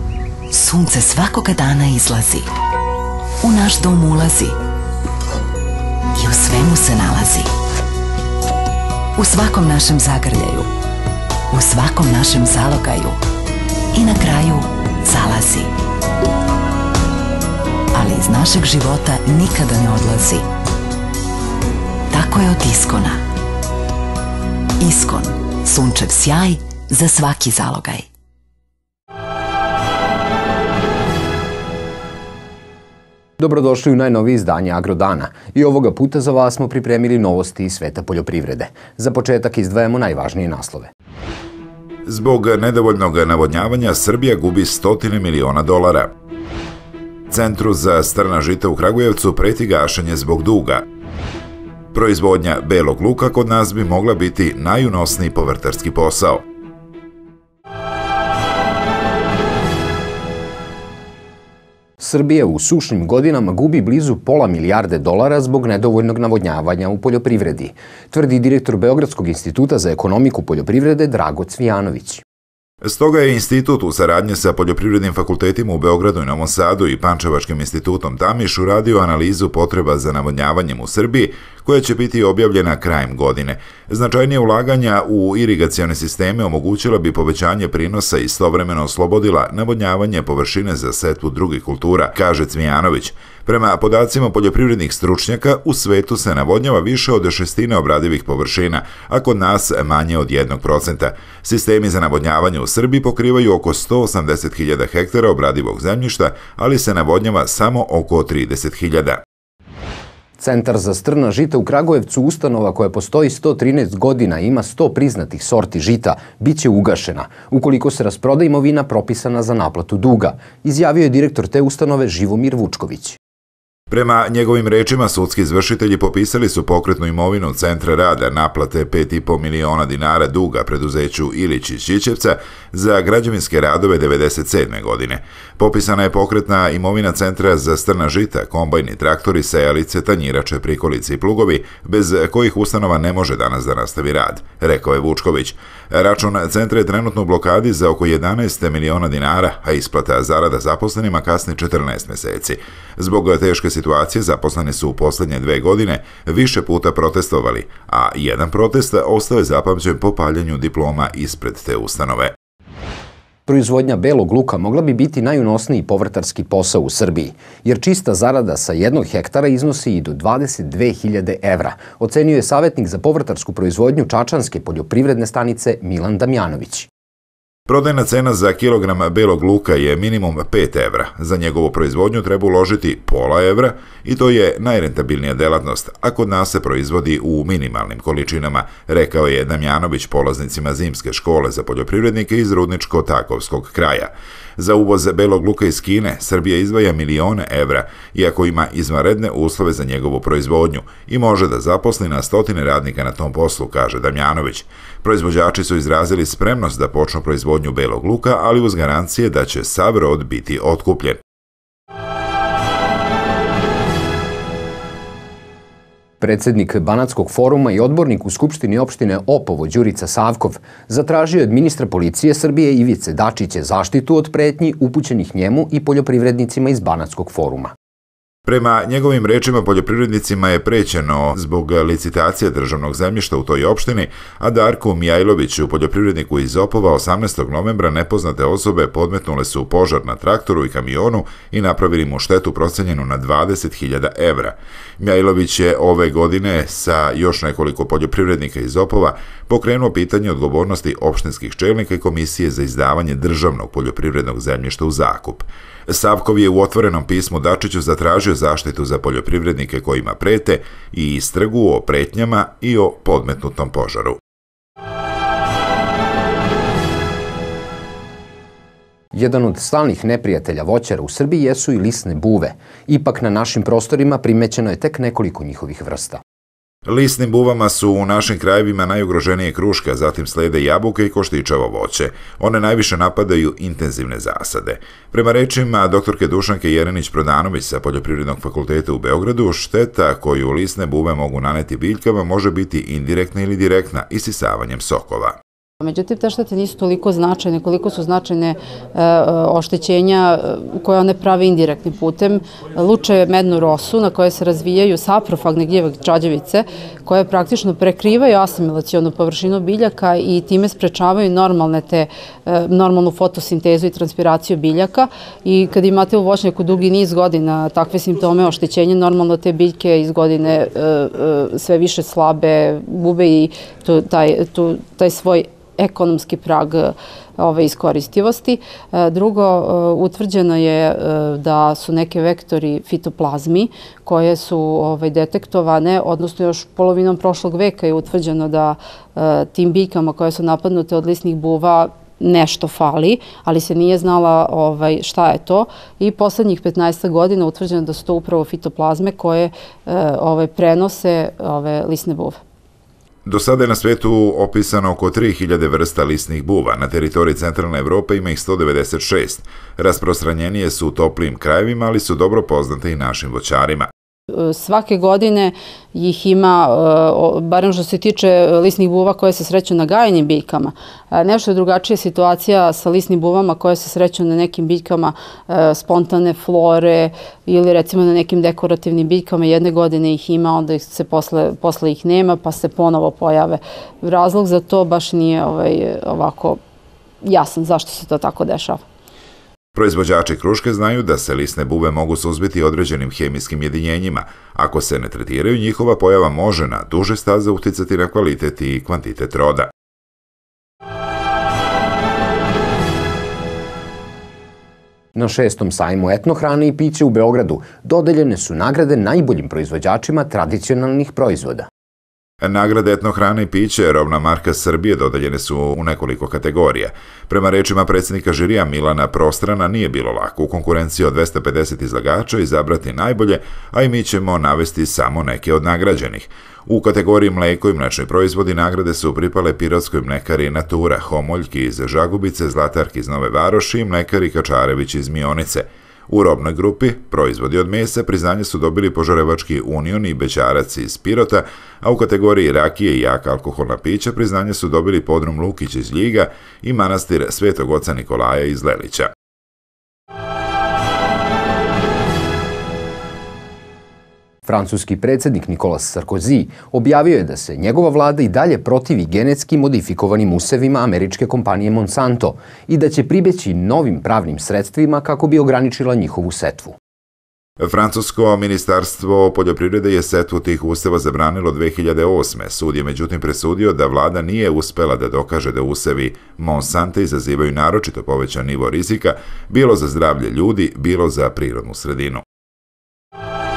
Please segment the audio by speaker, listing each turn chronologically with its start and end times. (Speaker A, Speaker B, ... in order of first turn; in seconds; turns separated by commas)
Speaker A: 0.5-2.5, Speaker A: 3.4-4.6, Speaker A: 6.1-7.5, Speaker A: 9.2-10.7, Speaker A: 11.5-13.2, Speaker A: 13.9-15.7, Speaker A: 17.9-20.5, Speaker A: 22.1-23.2, Speaker A: 24.8-28.1, Speaker B: 33.4-40.9, Speaker C: 42.0-46.1, Speaker C: 47.3-50.8, Speaker C: 51.9-56.4, Speaker B: 62.0-72.2, Speaker C: 72.8-109.2, Speaker B: 110.4-123.2, Speaker C: 123.9-162.3, Speaker B: 163.5-176.9, Speaker C: 177.7-211.2, Speaker B: 216.2-227.7, Speaker C: 228.4-264.2, Speaker B: 269.1-276.2, Speaker C: 276.9-295.4, Speaker D: 295.8-352.4, Speaker C: 353.2-363.9, Speaker D: 364.3-386.6, Speaker D: 387.2-388.8, Speaker C: 389.7-399.7, Speaker B: 405.1-411.7, Speaker C: 412.4-449.1, Speaker B: 454.4-466.8, Speaker C: 467.6-482.2